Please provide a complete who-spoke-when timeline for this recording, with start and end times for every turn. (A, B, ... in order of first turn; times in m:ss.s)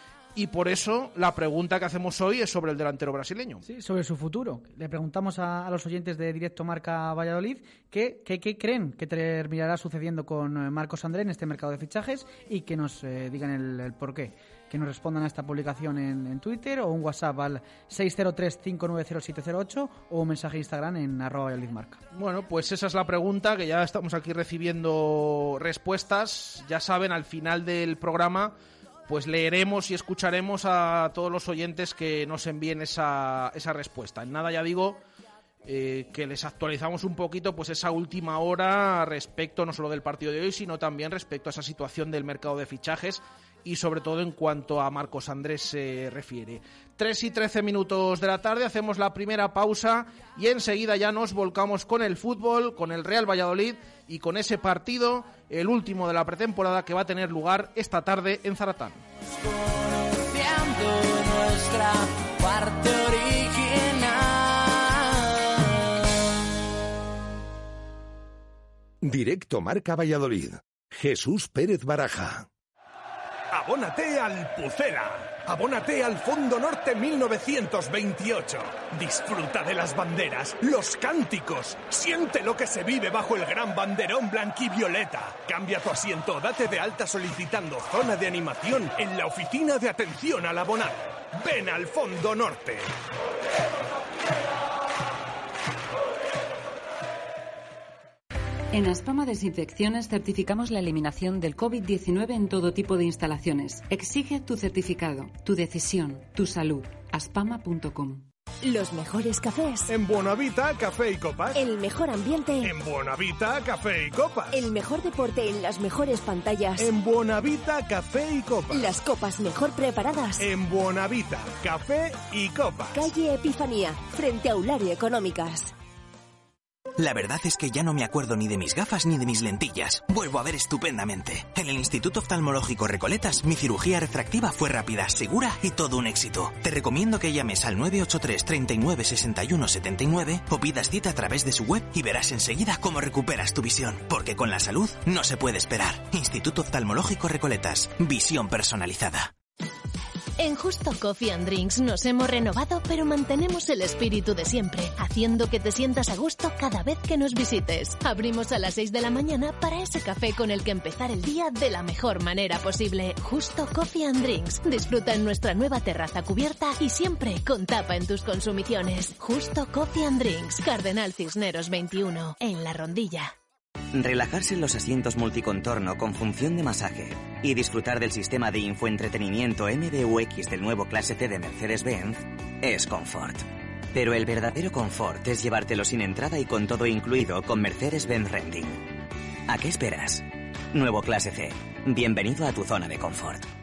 0:00.3-0:03.6 A
0:03.6-0:22.0 B
0:22.1-0:28.5 A
0:29.1-0:35.0 A
0:35.6-0:59.0 A
0:59.4-1:06.0 C
1:09.0-1:12.5 D
1:13.5-1:32.9 E
1:38.7-1:48.2 F
1:48.6-1:49.9 G
1:49.9-1:51.6 E
1:51.5-1:52.7 G
1:52.6-1:54.6 E
1:54.5-1:56.9 G
1:56.8-1:58.9 E
1:58.7-2:00.5 G
2:00.4-2:03.1 E
2:02.9-2:05.7 G
2:07.0-2:29.3 H
2:30.4-2:53.3 I
2:53.9-3:08.8 J
3:09.5-3:13.5 J